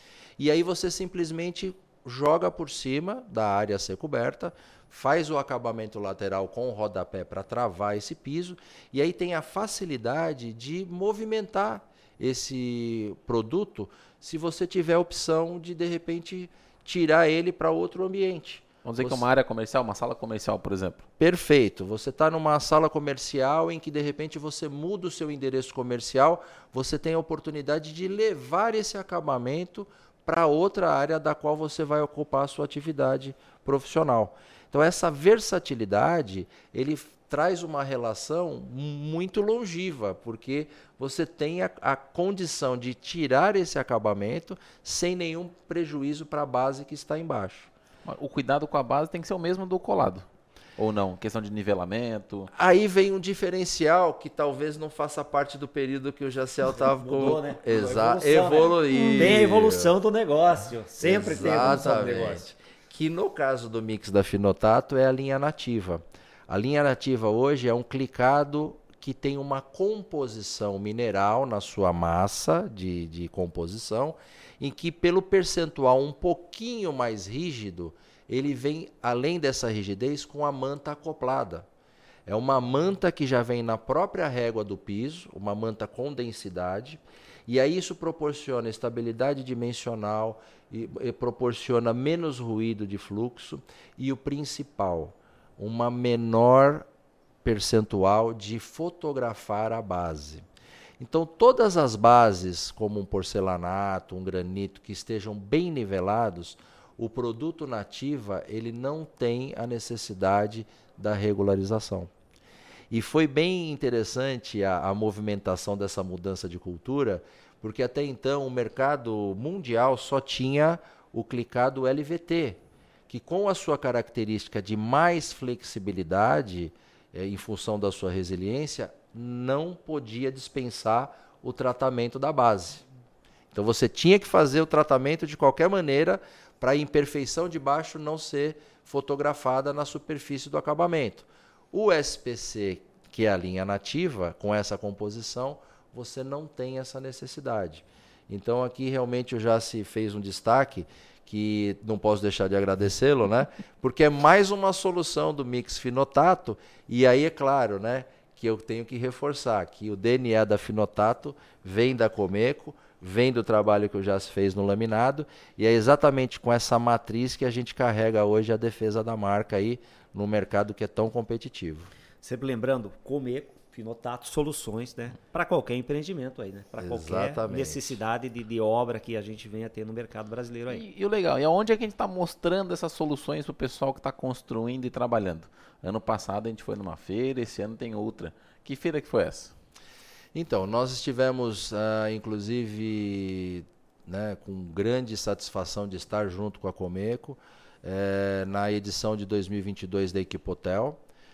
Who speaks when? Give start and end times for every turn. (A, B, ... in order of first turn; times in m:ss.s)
0:00.4-0:19.2 A
0:18.8-0:21.0 B
0:21.2-0:47.7 A
0:48.0-0:50.2 B
0:50.8-0:52.5 B
0:52.5-0:59.9 A
0:56.9-1:02.5 C
1:01.0-1:21.7 A
1:22.2-1:36.9 A
1:37.4-1:40.4 A
1:41.0-1:52.1 A
1:52.9-2:12.8 A
2:13.5-2:51.9 A
2:52.2-3:00.8 C
2:56.8-2:58.0 A
3:00.7-3:09.5 B
3:10.3-3:21.0 A